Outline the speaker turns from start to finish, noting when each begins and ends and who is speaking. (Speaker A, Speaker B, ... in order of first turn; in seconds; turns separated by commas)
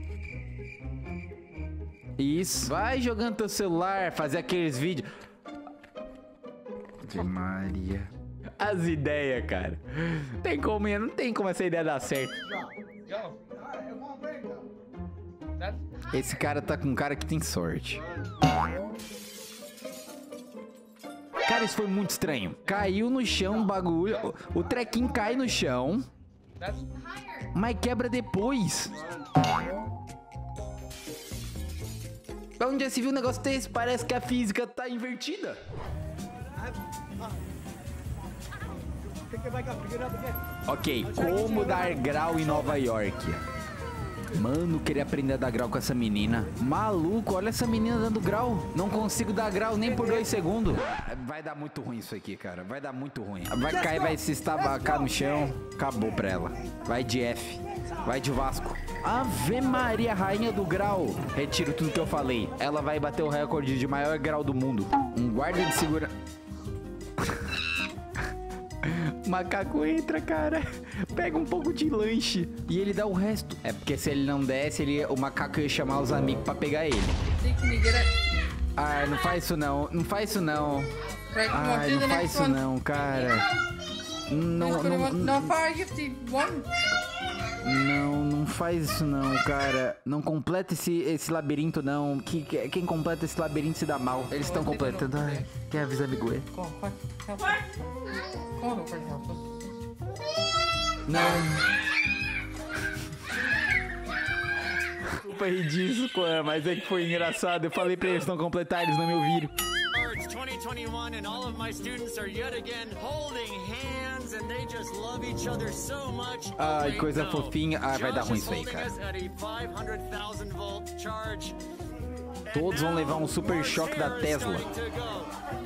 Speaker A: 2.2-5.1, Speaker A: 7.0-12.5, Speaker A: 16.1-18.0, Speaker A: 21.4-26.1, Speaker A: 27.5-28.9, Speaker A: 32.6-35.6, Speaker A: 40.7-43.4, Speaker A: 44.3-66.1, Speaker A: 67.2-67.5, Speaker A: 68.8-77.2, Speaker B: 77.4-78.1, Speaker A: 78.8-80.9, Speaker B: 81.3-82.5, Speaker A: 81.5-83.5, Speaker A: 84.3-85.7, Speaker B: 84.7-86.7, Speaker A: 87.6-96.5, Speaker B: 94.4-95.3, Speaker B: 96.5-97.6, Speaker B: 98.3-99.5, Speaker A: 101.0-101.7, Speaker A: 104.9-109.5, Speaker C: 109.9-121.6, Speaker A: 116.6-118.9, Speaker A: 122.5-124.7, Speaker C: 122.5-125.3